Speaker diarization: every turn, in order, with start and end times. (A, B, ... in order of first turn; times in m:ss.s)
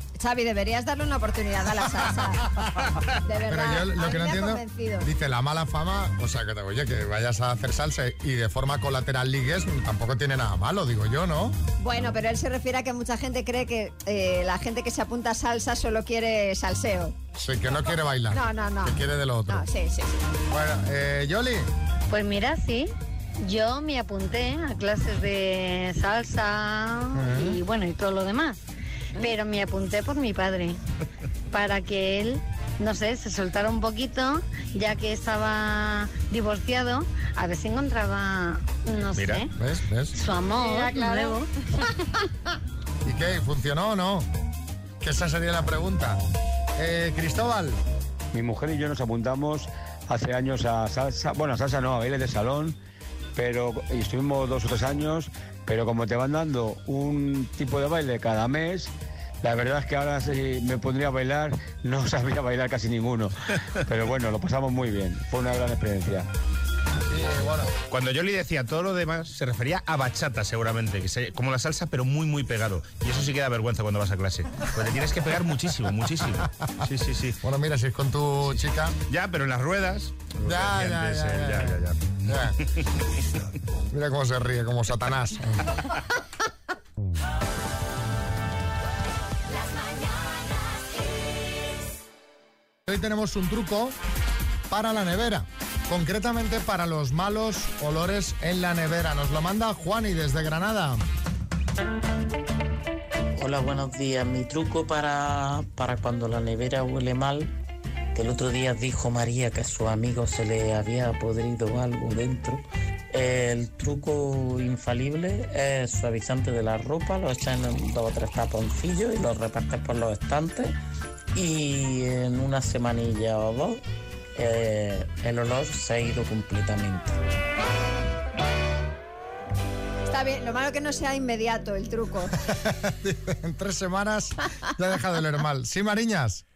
0:00.2-0:02.4 A
0:03.2-0:05.1 A
0:03.5-0:11.6 B
0:11.8-0:17.2 A
0:17.4-0:19.6 B
0:18.3-0:19.0 A
0:19.5-0:20.3 A
0:20.5-0:21.7 B
0:22.1-0:28.6 C
0:27.1-0:27.6 B
0:29.1-0:30.8 C
0:31.5-0:39.5 C
0:39.1-0:39.4 D
0:39.6-0:40.2 B
0:40.1-0:41.5 C
0:40.6-0:41.4 A
0:43.0-0:44.3 B
0:45.0-0:46.2 B
0:46.8-0:47.8 B
0:48.3-0:52.8 E
0:53.4-1:06.3 E
1:07.1-1:07.7 B
1:07.9-1:17.4 D
1:17.4-1:19.0 B
1:18.4-1:22.0 D
1:20.4-1:22.6 B
1:23.9-1:25.7 B
1:32.9-1:34.0 B
1:34.7-1:41.0 B
1:43.4-1:47.5 F
1:48.1-2:00.8 F
2:01.3-2:03.8 F
2:04.3-2:07.2 F
2:10.1-2:12.4 A
2:12.6-2:16.4 B